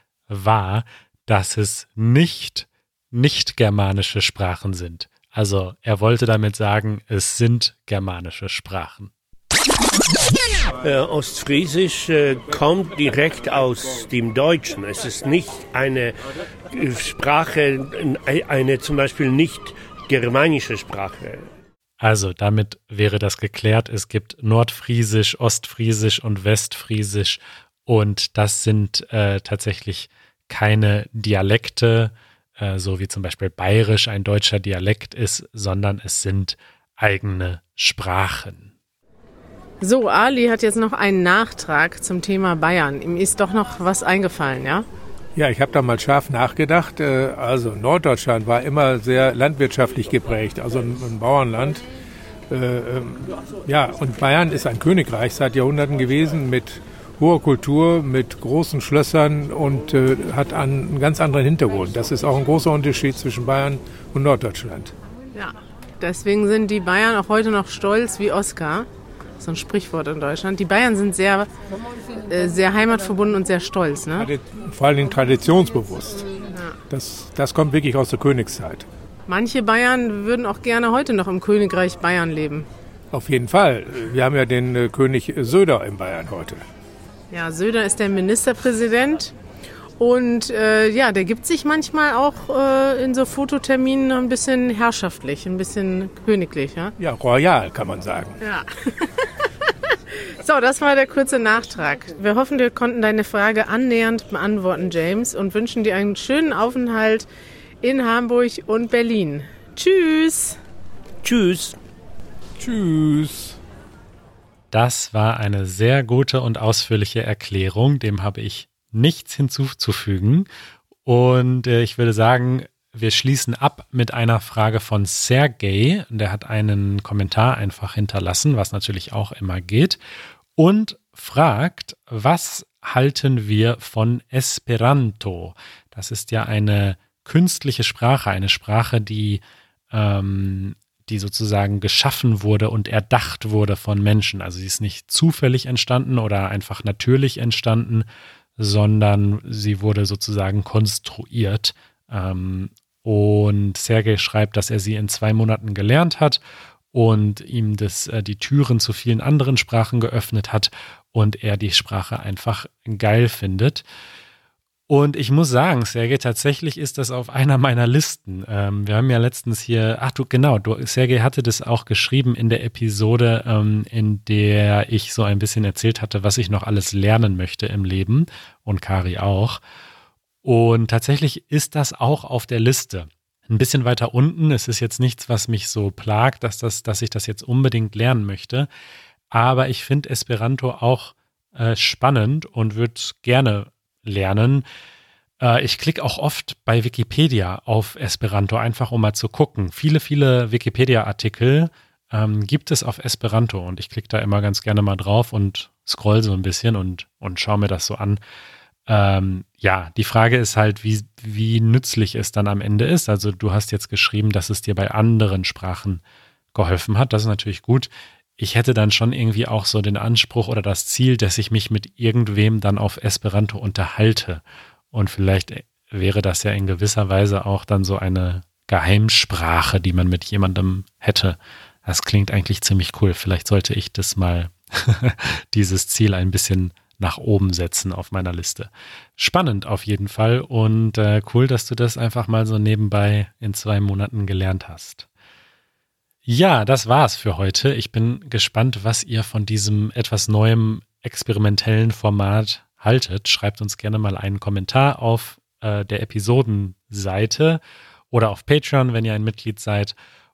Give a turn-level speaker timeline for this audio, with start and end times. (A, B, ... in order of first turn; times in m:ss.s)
0:00.3-0:09.1 A
0:10.8-0:16.1 B
0:16.7-0:21.4 B
0:22.0-0:38.7 A
0:39.8-0:44.8 C
0:45.4-0:51.8 D
0:52.5-1:04.9 D
1:05.3-1:08.9 C
1:09.4-1:11.5 C
1:12.2-1:14.3 C
1:14.2-1:16.4 D
1:16.9-1:18.8 D
1:19.3-1:22.7 C
1:23.1-1:26.6 D
1:27.3-1:29.3 C
1:30.0-1:36.9 C
1:37.0-1:38.4 D
1:38.4-1:47.3 C
1:47.8-1:50.6 C
1:51.2-1:51.8 B
1:52.6-1:53.6 D
1:54.7-2:00.5 A
2:01.0-2:10.0 A
2:10.6-2:28.1 A
2:28.6-2:36.4 A
2:36.9-2:43.8 A
2:44.9-2:59.6 A
3:00.4-3:08.7 A
3:09.3-3:14.6 A
3:15.4-3:28.2 A
3:28.9-3:36.0 A
3:36.5-4:05.0 A
4:06.2-4:20.0 A